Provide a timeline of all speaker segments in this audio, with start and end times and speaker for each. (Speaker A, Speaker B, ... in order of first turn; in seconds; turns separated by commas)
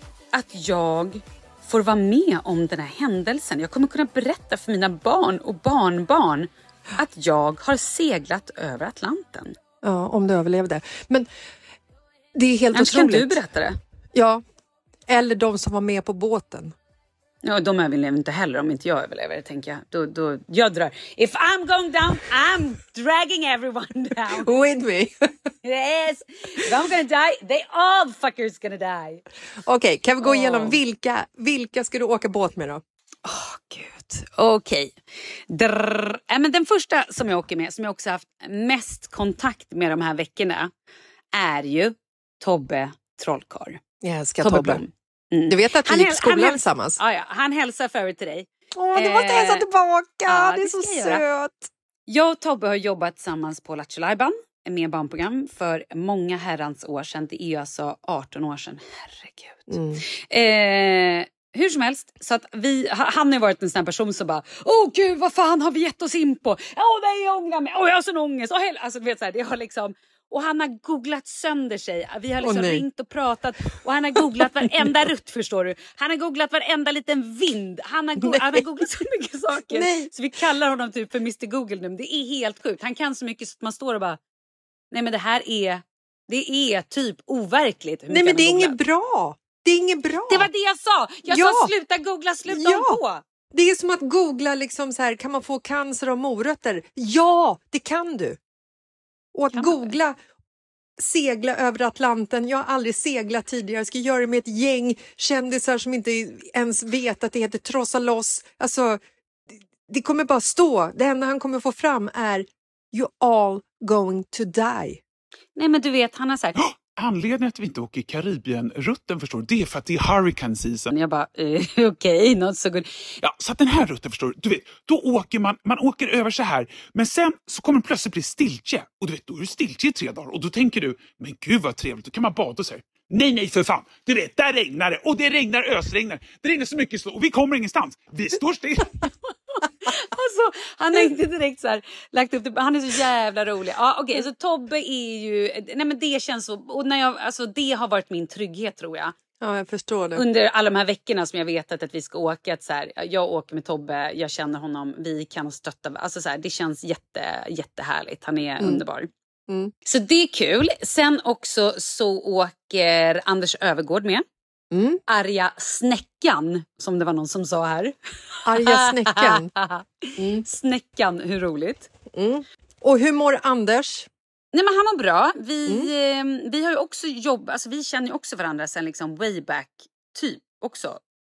Speaker A: 0.3-9.5, Speaker B: 9.8-11.3, Speaker B: 12.3-13.4, Speaker A: 12.7-13.8, Speaker B: 14.1-14.4, Speaker B: 15.1-16.7, Speaker A: 17.4-24.5, Speaker B: 24.4-25.3, Speaker A: 25.6-29.2, Speaker B: 29.6-32.8, Speaker A: 30.2-30.8, Speaker A: 33.2-35.0, Speaker A: 35.5-40.7, Speaker A: 41.3-43.8, Speaker B: 44.0-44.8, Speaker A: 44.4-49.6, Speaker B: 45.5-47.0, Speaker B: 48.7-51.7, Speaker A: 50.2-51.2, Speaker A: 52.1-84.2, Speaker B: 59.7-60.0, Speaker B: 72.4-72.8, Speaker B: 74.1-74.9, Speaker B: 78.2-78.6, Speaker B: 79.7-80.1, Speaker A: 84.9-88.8, Speaker B: 88.1-90.5, Speaker A: 90.3-93.2, Speaker B: 91.2-91.7, Speaker B: 92.5-93.0, Speaker B: 93.5-98.4, Speaker B: 99.3-100.2, Speaker A: 99.5-99.9, Speaker B: 101.0-109.0, Speaker B: 109.9-115.0, Speaker A: 115.5-116.5, Speaker C: 116.6-120.9, Speaker A: 120.9-123.0, Speaker C: 123.2-139.0, Speaker A: 139.7-149.1, Speaker B: 149.4-150.2, Speaker A: 150.2-159.1, Speaker B: 159.5-159.7, Speaker A: 159.8-164.2, Speaker B: 164.7-165.0, Speaker A: 165.1-167.9, Speaker B: 168.4-169.5, Speaker A: 168.5-171.9, Speaker B: 170.2-170.4, Speaker B: 172.1-174.1, Speaker A: 174.5-181.0, Speaker B: 175.7-175.9